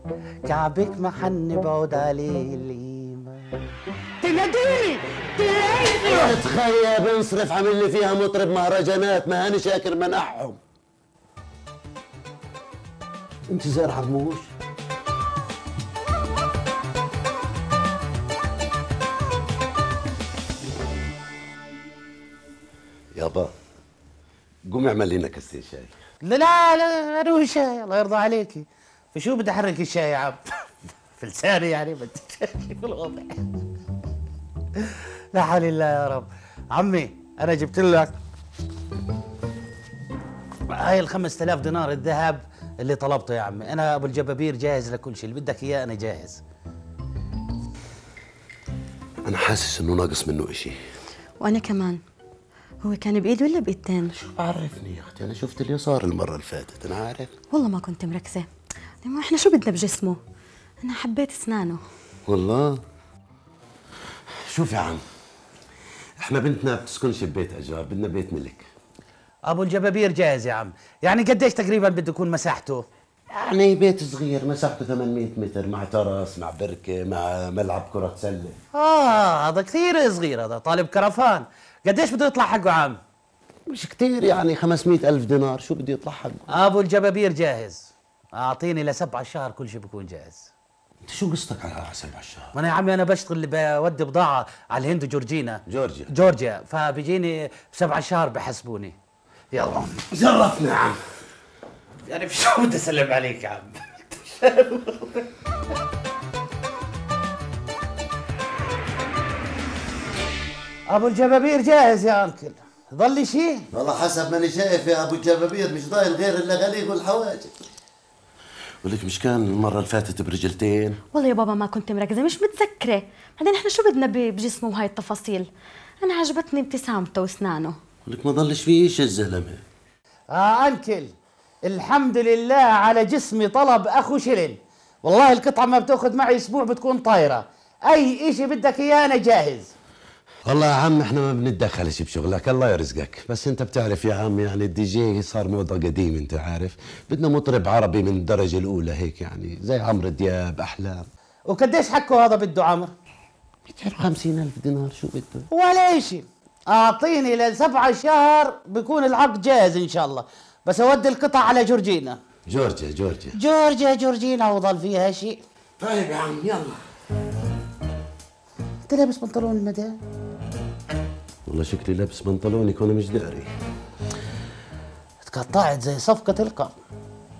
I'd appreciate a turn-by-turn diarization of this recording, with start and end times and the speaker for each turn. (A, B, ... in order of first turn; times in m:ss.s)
0:00.5-0:03.5 A
0:04.2-0:06.4 A
0:05.9-0:10.6 B
0:13.5-0:14.5 B
0:23.2-0:23.5 B
0:24.7-0:25.9 B
0:26.2-0:30.4 A
0:31.2-0:33.6 A
0:34.8-0:38.2 A
0:40.7-0:46.4 A
0:49.2-0:50.8 B
0:51.4-0:52.0 C
0:52.8-0:54.2 C
0:54.1-0:57.3 B
0:57.5-0:58.5 C
0:59.0-1:00.2 C
1:00.8-1:01.8 C
1:02.3-1:02.8 B
1:04.4-1:05.0 B
1:06.2-1:08.7 B
1:09.5-1:12.9 A
1:13.3-1:18.6 B
1:18.8-1:23.0 A
1:23.7-1:26.5 B
1:26.5-1:30.5 A
1:31.0-1:32.5 B
1:32.6-1:39.0 A
1:35.7-1:36.1 B
1:39.5-1:40.1 A
1:40.1-1:41.0 B
1:42.1-1:45.3 A
1:50.9-1:53.7 A
1:53.7-1:57.6 B
1:58.8-2:01.0 B
2:01.1-2:05.5 C
2:06.0-2:07.8 C
2:08.0-2:09.6 B
2:10.3-2:11.1 A
2:11.6-2:19.7 A
2:20.5-2:31.1 B
2:31.5-2:32.9 A
2:33.7-2:35.5 B
2:35.5-2:42.2 A
2:42.5-2:43.4 B
2:43.3-2:45.4 A
2:45.8-2:46.8 B
2:48.9-2:50.0 A
2:51.5-2:53.5 B
2:55.2-2:56.8 A